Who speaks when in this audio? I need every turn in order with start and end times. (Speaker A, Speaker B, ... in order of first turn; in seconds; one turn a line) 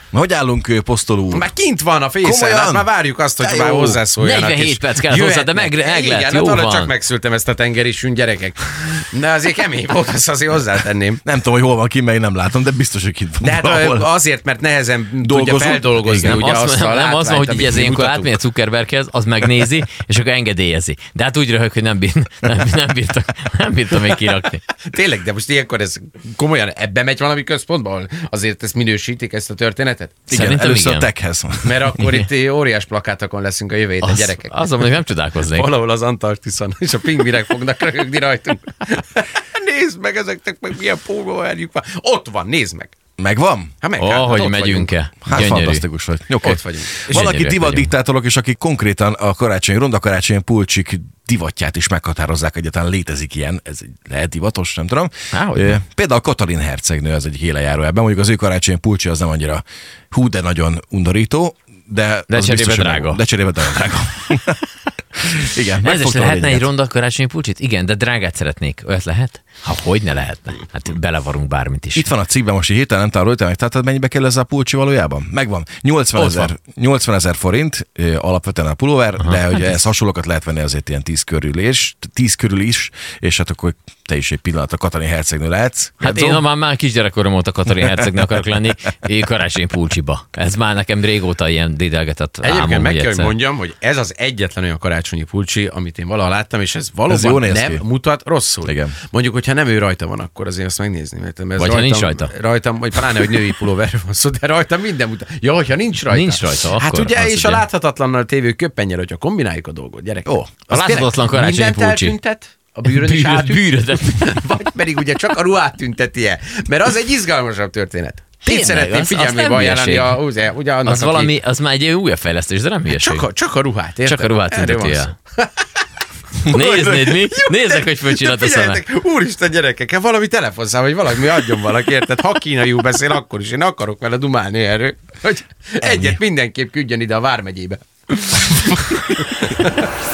Speaker A: 0.1-1.5
Speaker B: 1.3-11.2
Speaker A: 2.2-4.0
Speaker C: 4.2-6.9
Speaker A: 11.2-14.1
Speaker B: 13.4-18.4
Speaker A: 15.2-16.4
Speaker C: 16.1-24.6
Speaker B: 24.9-30.3
Speaker C: 30.3-31.1
Speaker A: 30.3-32.0
Speaker B: 31.6-34.9
Speaker C: 34.0-35.7
Speaker B: 35.4-43.0
Speaker A: 43.2-43.7
Speaker B: 43.8-44.9
Speaker C: 44.0-45.9
Speaker A: 45.2-64.6
Speaker B: 46.4-47.0
Speaker C: 47.1-47.9
Speaker C: 55.3-55.8
Speaker C: 62.3-63.2
Speaker A: 65.2-66.7
Speaker C: 65.8-72.1
Speaker A: 72.0-86.4
Speaker B: 76.2-76.5
Speaker C: 79.2-79.8
Speaker C: 86.0-93.3
Speaker B: 92.4-121.3
Speaker A: 97.1-97.8
Speaker A: 98.6-99.0
Speaker C: 101.6-102.3
Speaker C: 106.1-107.6
Speaker A: 110.3-110.6
Speaker C: 110.7-112.2
Speaker C: 112.8-114.4
Speaker C: 118.4-120.2
Speaker C: 120.8-123.2
Speaker B: 122.9-125.7
Speaker C: 124.0-125.2
Speaker C: 126.5-128.8
Speaker B: 126.5-139.8
Speaker A: 135.8-136.2